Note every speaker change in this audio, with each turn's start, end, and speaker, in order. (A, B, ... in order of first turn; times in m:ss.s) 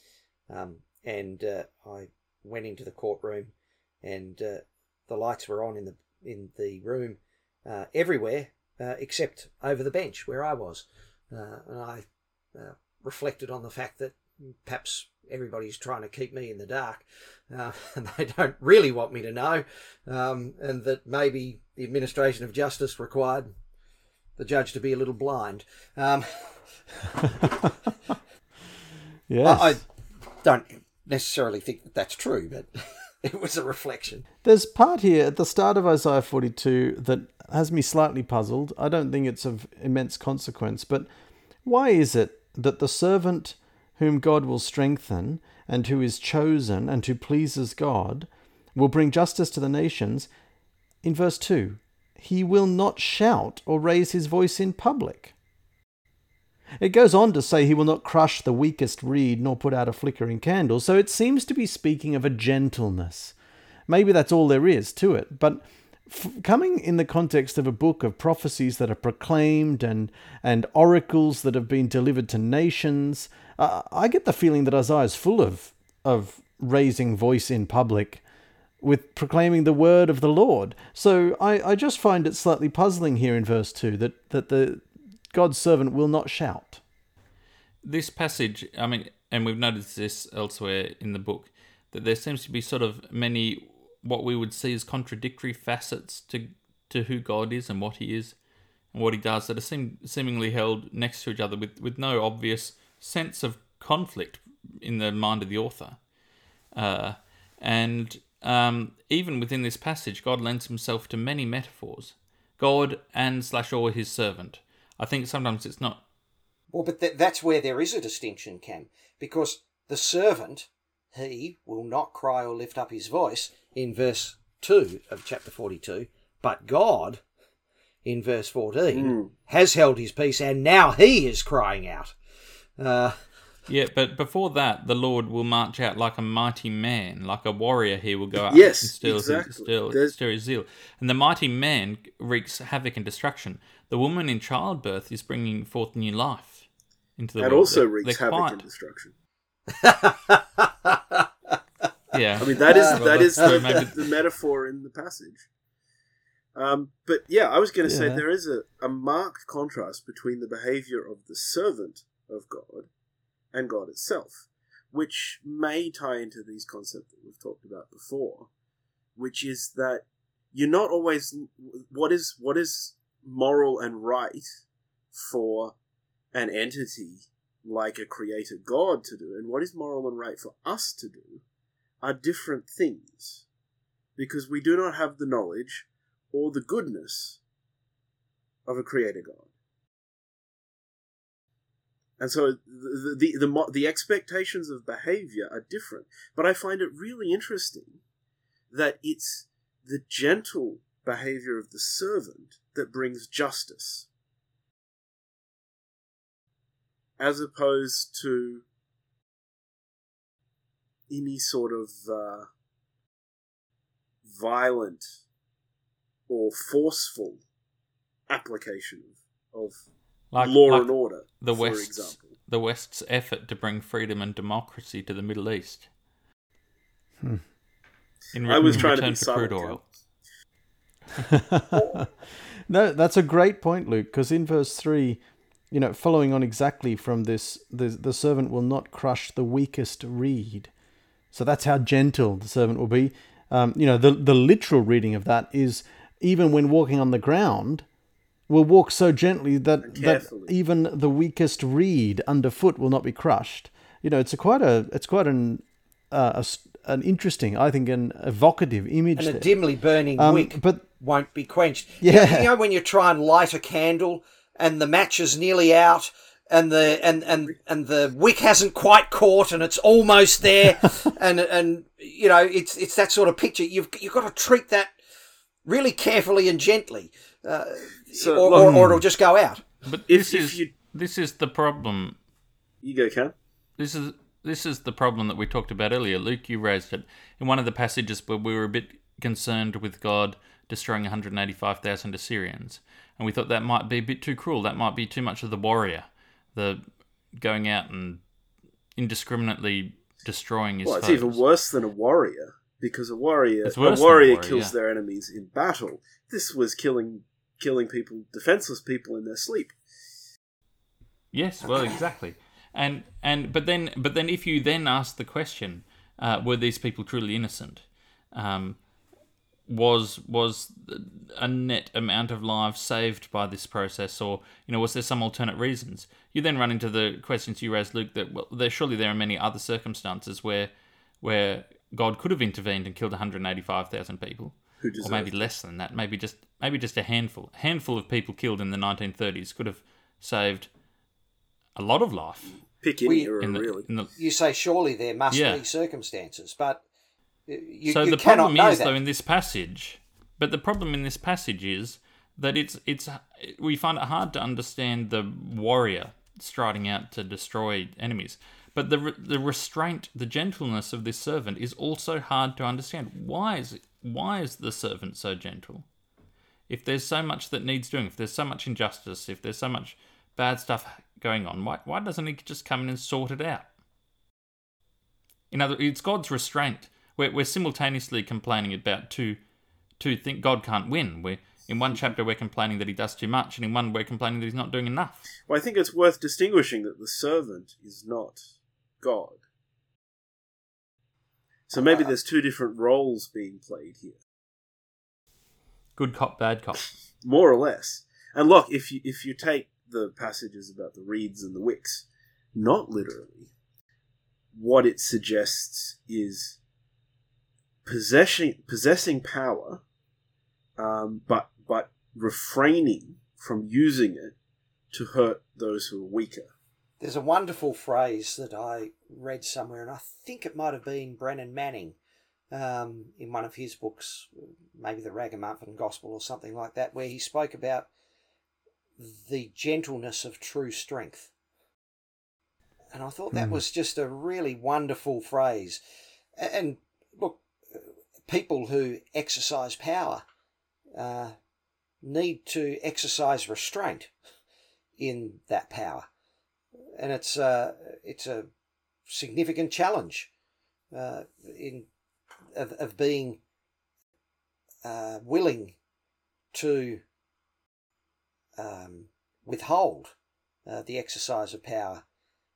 0:00.5-0:23.5 A
0:24.4-0:27.5 A
0:27.4-0:27.7 B
0:29.3-0:29.8 B
0:29.4-0:29.8 A
0:30.4-0:32.7 A
0:33.2-0:34.2 A
0:34.4-0:41.1 B
0:41.6-0:50.3 B
0:51.0-0:55.3 B
0:56.8-1:03.3 B
1:03.9-1:18.2 B
1:18.8-1:26.8 B
1:27.8-1:38.4 C
1:38.9-1:46.0 C
1:46.7-1:56.0 C
1:56.7-2:07.2 A
2:08.0-2:12.1 A
2:08.9-2:09.3 D
2:12.8-2:13.2 A
2:13.7-2:26.6 C
2:18.5-2:20.1 D
2:27.2-2:28.6 C
2:27.4-2:29.1 D
2:29.7-2:31.2 A
2:32.1-2:33.9 C
2:32.4-2:35.4 D
2:32.6-2:33.9 A
2:36.5-2:42.9 D
2:37.8-2:38.2 B
2:43.5-2:48.5 D
2:49.2-2:54.6 D
2:55.1-2:55.7 D
2:56.3-3:01.4 D
3:02.0-3:03.4 D
3:04.2-3:07.4 D
3:08.6-3:09.5 D
3:12.2-3:18.0 D
3:18.7-3:24.1 D
3:27.2-3:28.6 D
3:31.1-3:32.5 D
3:34.2-3:35.1 D
3:36.3-3:37.4 D
3:38.3-3:39.8 D
3:40.3-3:45.9 C
3:40.4-3:42.3 D
3:48.3-3:49.8 C
3:48.4-3:49.8 D
3:51.2-3:52.1 B
3:52.7-4:00.7 B
4:01.3-4:07.8 B
4:08.5-4:19.5 B
4:09.8-4:10.5 D
4:19.2-4:34.9 A
4:20.2-4:20.8 B
4:22.0-4:22.5 B
4:35.6-4:39.6 A
4:38.1-4:38.8 D
4:38.5-4:39.0 B
4:39.8-4:42.2 C
4:40.1-4:40.7 D
4:42.8-4:43.3 D
4:43.8-4:56.8 C
4:57.4-4:58.2 C
4:59.0-5:01.4 C
5:00.8-5:09.8 D
5:03.6-5:04.7 C
5:11.3-5:18.8 C
5:19.7-5:40.7 C
5:34.8-5:35.3 D
5:41.7-5:42.6 C
5:42.8-5:43.9 D
5:43.0-5:43.3 A
5:43.4-5:44.1 C
5:44.1-5:46.8 A
5:45.3-5:45.6 C
5:47.5-5:48.9 A
5:47.9-6:05.8 C
6:06.7-6:13.7 C
6:15.5-6:19.4 C
6:20.0-6:25.2 C
6:25.5-6:28.4 D
6:29.0-6:29.4 D
6:31.7-6:34.2 D
6:36.0-6:36.9 C
6:37.2-6:43.5 D
6:44.5-6:46.6 D
6:47.8-6:49.8 D
6:50.8-6:54.3 D
6:54.9-6:56.5 D
6:57.0-7:02.0 A
7:02.5-7:07.9 A
7:09.0-7:11.3 A
7:12.9-7:15.8 A
7:13.3-7:13.6 B
7:16.4-7:20.2 A
7:20.9-7:21.3 A
7:22.0-7:24.1 A
7:25.0-7:26.0 A
7:26.9-7:28.5 A
7:29.1-7:30.3 A
7:30.9-7:31.9 A
7:32.5-7:33.4 A
7:34.8-7:35.7 A
7:36.5-7:37.0 A
7:38.6-7:40.1 A
7:40.6-7:42.0 A